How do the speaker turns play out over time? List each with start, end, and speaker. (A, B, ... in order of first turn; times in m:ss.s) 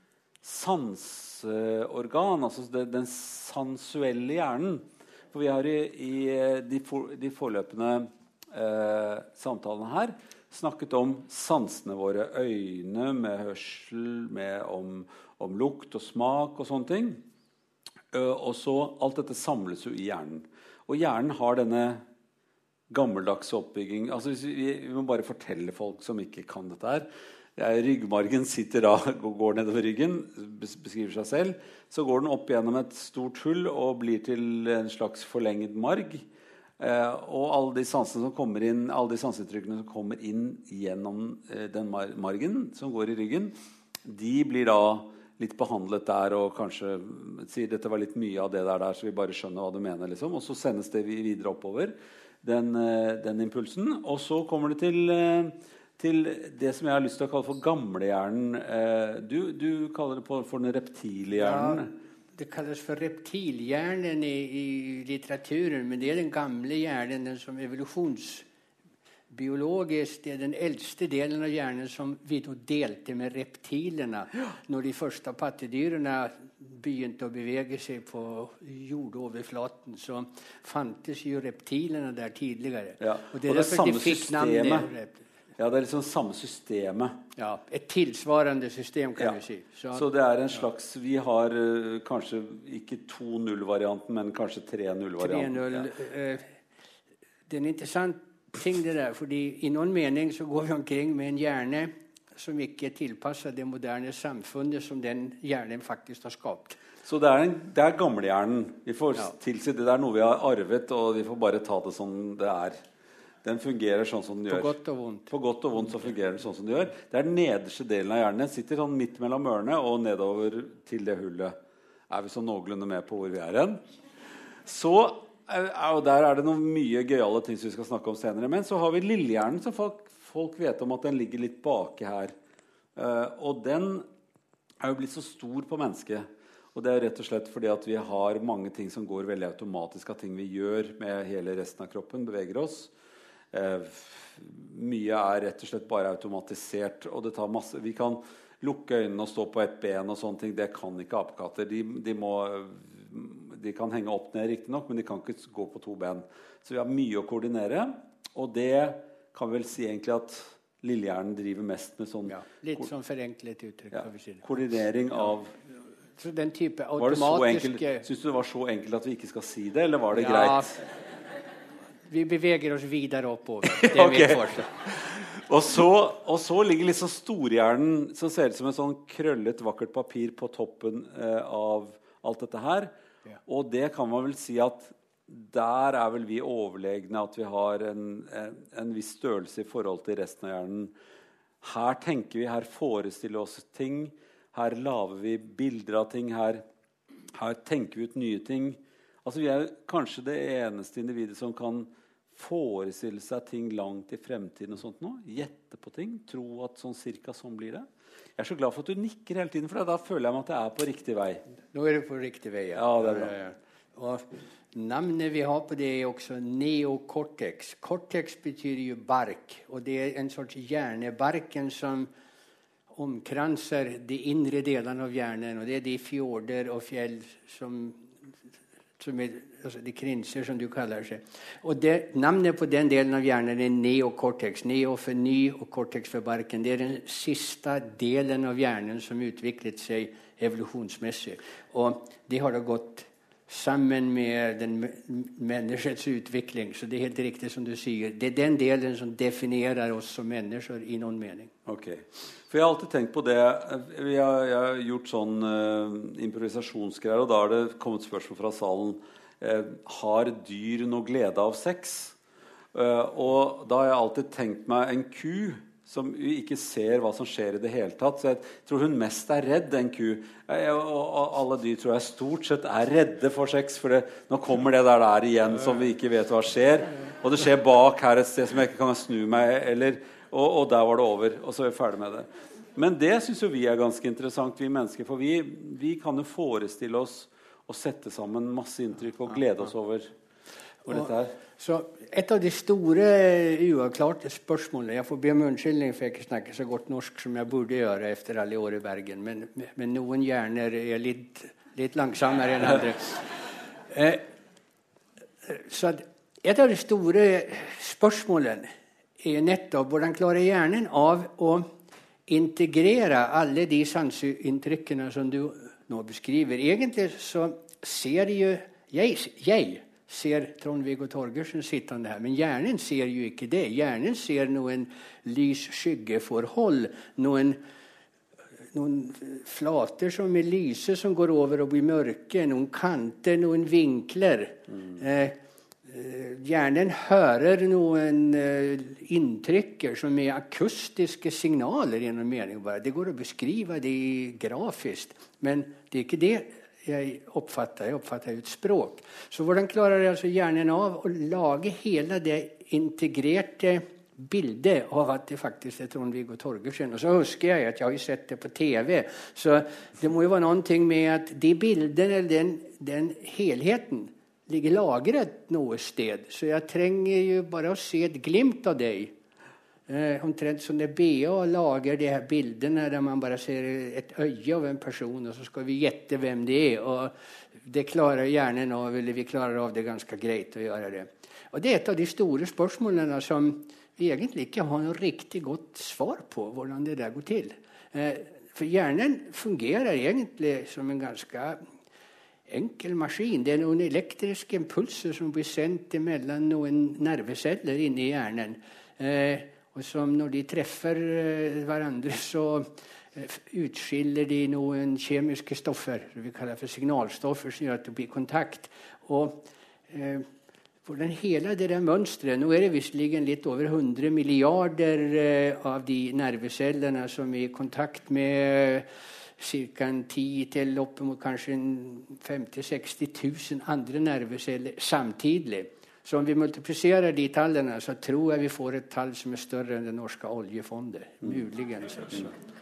0:00.4-0:17.2 A
0:18.1-0:22.0 A
0:22.9-0:36.3 A
0:36.8-1:01.9 A
1:01.4-1:08.5 B
1:09.3-1:25.2 B
1:23.0-1:24.9 A
1:25.6-1:27.2 A
1:27.4-1:30.6 B
1:29.9-1:35.9 A
1:35.2-1:36.6 B
1:37.5-1:46.8 B
1:47.0-1:52.8 A
1:53.4-1:54.8 A
1:54.5-1:55.3 B
1:55.3-2:01.6 A
2:02.1-2:03.8 A
2:04.6-2:12.3 A
2:13.0-2:14.1 A
2:14.8-2:22.9 A
2:23.5-2:42.8 A
2:42.3-2:44.6 B
2:43.9-2:45.5 A
2:46.2-2:48.1 B
2:47.0-2:50.8 A
2:50.1-2:50.8 B
2:52.1-2:54.7 B
2:53.6-3:02.9 A
3:03.5-3:10.9 A
3:11.6-3:16.6 A
3:17.4-3:27.9 A
3:28.4-3:31.4 A
3:31.7-3:42.1 B
3:32.8-3:33.3 A
3:42.9-3:48.0 B
3:49.0-4:11.5 B
4:11.7-4:22.2 A
4:22.7-4:50.1 A
4:50.8-4:51.4 A
4:50.9-5:03.3 B
5:03.9-5:04.2 B
5:05.4-5:08.7 B
5:09.2-5:11.7 B
5:12.3-5:27.6 B
5:28.7-6:09.1 B
6:09.9-6:31.6 B
6:32.5-6:50.3 B
6:50.8-6:58.9 B
6:59.4-7:12.3 B